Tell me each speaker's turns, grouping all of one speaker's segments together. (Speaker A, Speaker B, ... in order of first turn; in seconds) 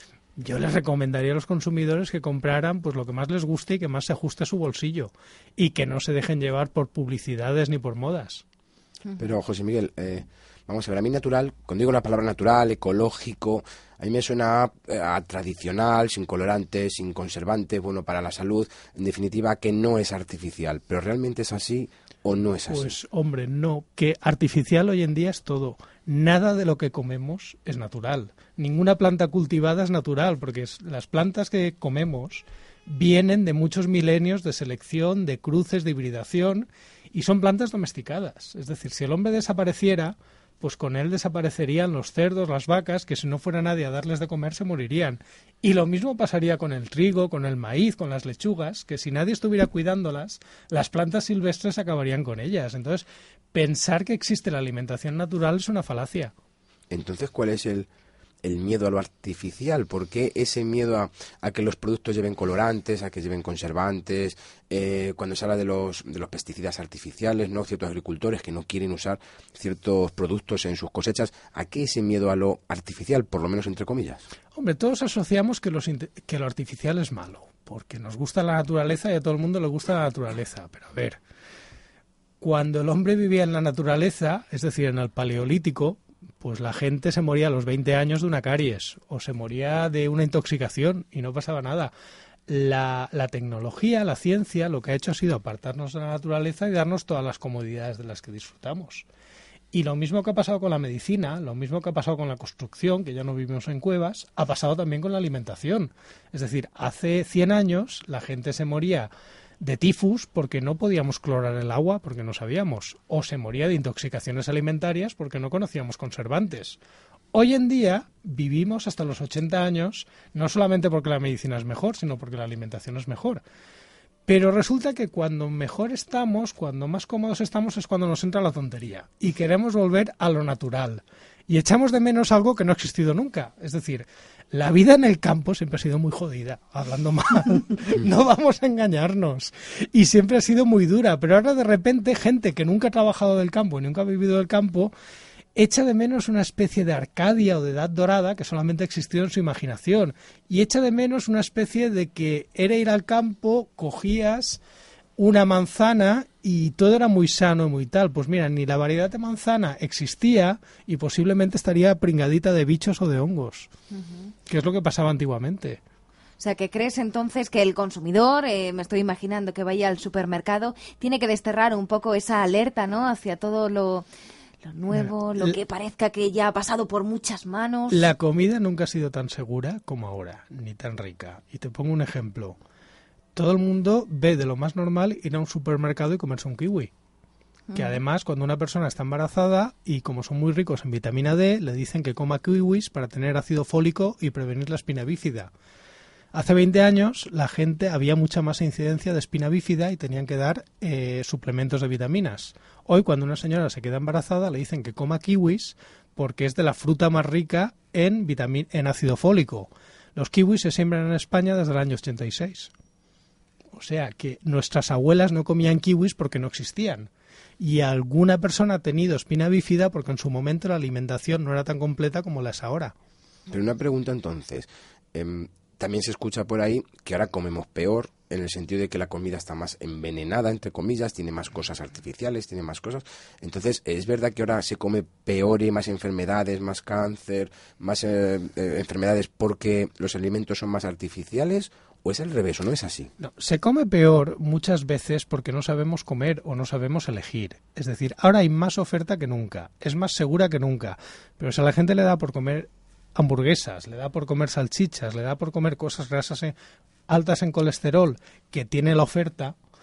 Speaker A: 0.4-8.4, 22.7-56.3, 74.5-81.2, 82.4-91.9, 92.5-99.0, 99.7-109.1, 109.6-116.8, 117.3-123.4, 124.2-144.9, 145.6-154.6, 155.2-163.7, 164.5-165.8, 174.9-175.6, 177.9-182.6, 183.3-186.9, 187.7-195.5, 196.3-212.7, 213.7-217.1, 217.6-222.9, 243.2-256.5, 257.1-259.5
Speaker B: 9.2-23.0, 56.9-57.9, 58.4-74.2, 223.5-243.1
Speaker C: 163.9-164.3, 166.4-174.1, 174.6-178.1, 187.7-188.0